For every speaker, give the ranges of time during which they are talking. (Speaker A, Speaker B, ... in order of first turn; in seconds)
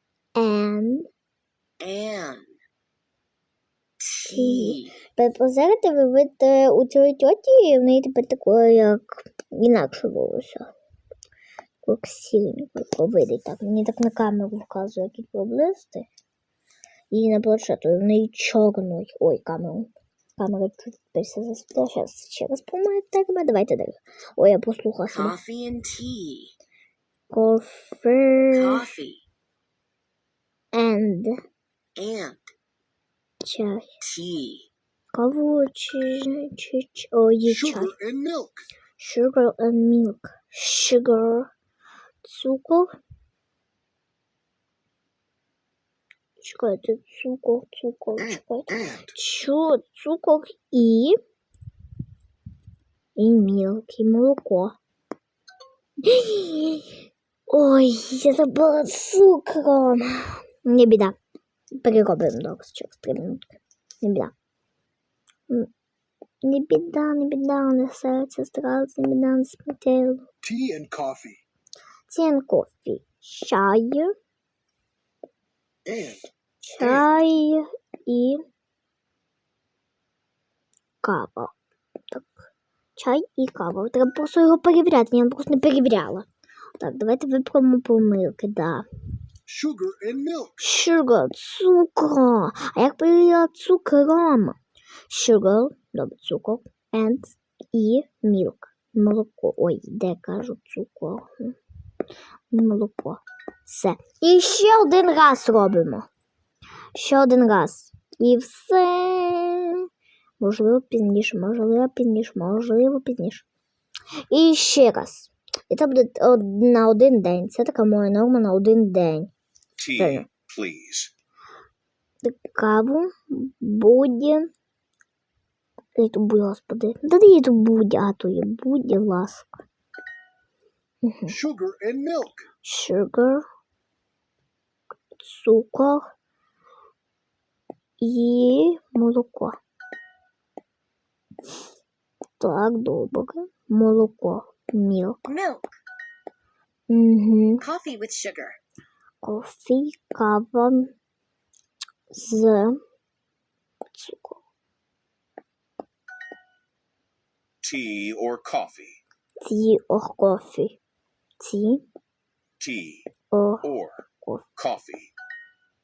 Speaker A: 0.3-1.1, 4.2-10.7, 11.8-16.1, 17.1-25.4, 27.3-28.9, 30.7-31.3, 33.4-33.9, 35.1-37.9, 39.0-41.5, 42.2-42.9, 46.4-51.2, 53.1-54.8, 56.0-57.0, 57.5-61.1, 61.8-64.3, 66.4-70.2, 72.1-74.1, 76.6-78.4, 81.0-81.5, 82.1-86.3, 86.8-88.8, 90.6-94.6, 95.1-101.5, 102.5-106.1, 106.9-109.8, 110.4-113.5, 114.3-119.3, 120.0-120.3, 122.2-124.5, 126.0-129.6, 131.0-131.3, 132.6-133.4, 135.2-136.1, 138.0-139.6, 142.4-145.2, 146.9-147.6, 149.2-150.9, 152.1-152.8, 153.9-154.4, 159.4-160.8, 161.4-161.8, 163.3-163.7, 164.2-164.5
Speaker B: 1.8-2.5, 4.0-5.0, 25.0-26.5, 28.5-29.2, 31.9-32.5, 34.0-34.7, 48.2-49.1, 145.2-145.8, 147.6-148.6
Speaker C: 37.5-38.7, 70.4-71.4, 75.8-76.3, 76.8-77.0, 89.5-90.6, 119.8-121.1, 131.3-132.5, 157.6-159.0, 162.6-163.1, 163.6-164.0, 164.6-165.1